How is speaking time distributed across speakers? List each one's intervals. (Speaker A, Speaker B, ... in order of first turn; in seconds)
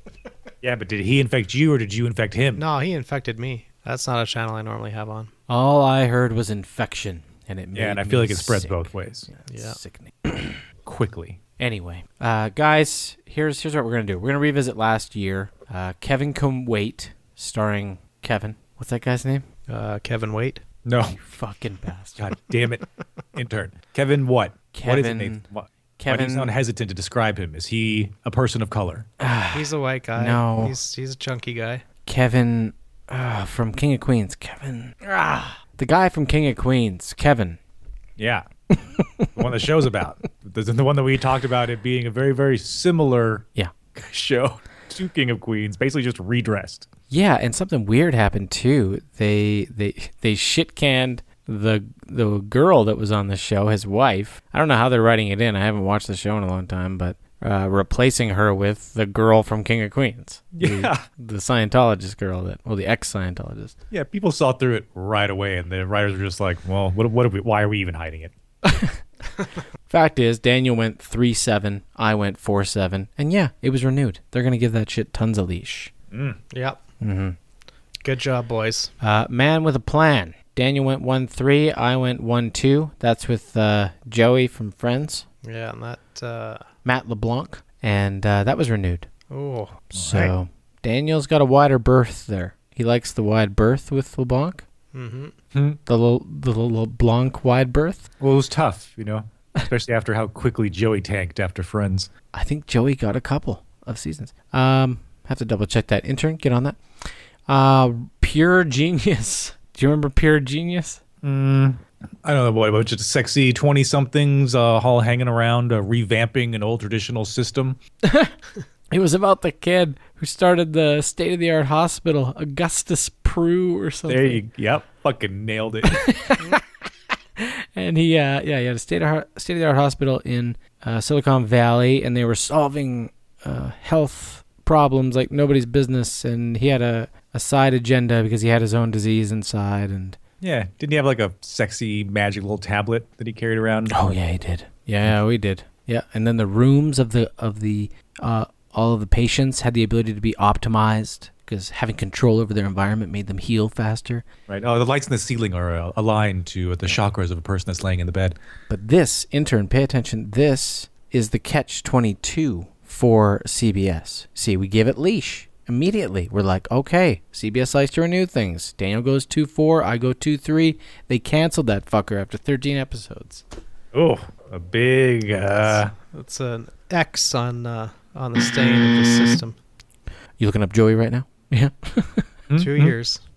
Speaker A: 0.6-2.6, 7.7-9.3, 10.8-11.4, 20.9-21.2, 22.2-22.8, 23.3-29.1, 38.2-38.4, 39.4-46.9, 60.5-61.0, 63.9-68.3, 76.1-76.4, 89.9-90.3, 95.5-95.8, 98.2-102.1, 111.2-117.8, 124.1-126.0, 140.4-144.0, 154.5-158.3, 173.9-175.9, 182.5-182.9
Speaker B: 2.5-5.3, 9.5-9.8, 19.7-20.6, 29.5-31.8, 76.5-76.8, 78.0-78.9, 85.4-86.6, 89.3-89.8, 94.9-95.3, 175.7-179.6, 182.6-183.2
Speaker C: 5.5-10.6, 11.6-19.4, 21.2-22.2, 24.7-25.4, 26.0-26.5, 29.2-30.7, 32.0-37.6, 38.7-39.3, 47.1-63.8, 68.6-69.0, 69.9-75.9, 77.0-77.3, 79.0-85.2, 86.8-89.1, 89.9-94.6, 95.9-98.1, 102.3-106.8, 107.5-111.0, 118.0-118.3, 118.9-124.4, 125.9-126.6, 127.4-140.2, 143.9-154.2, 158.7-173.4, 180.4-182.3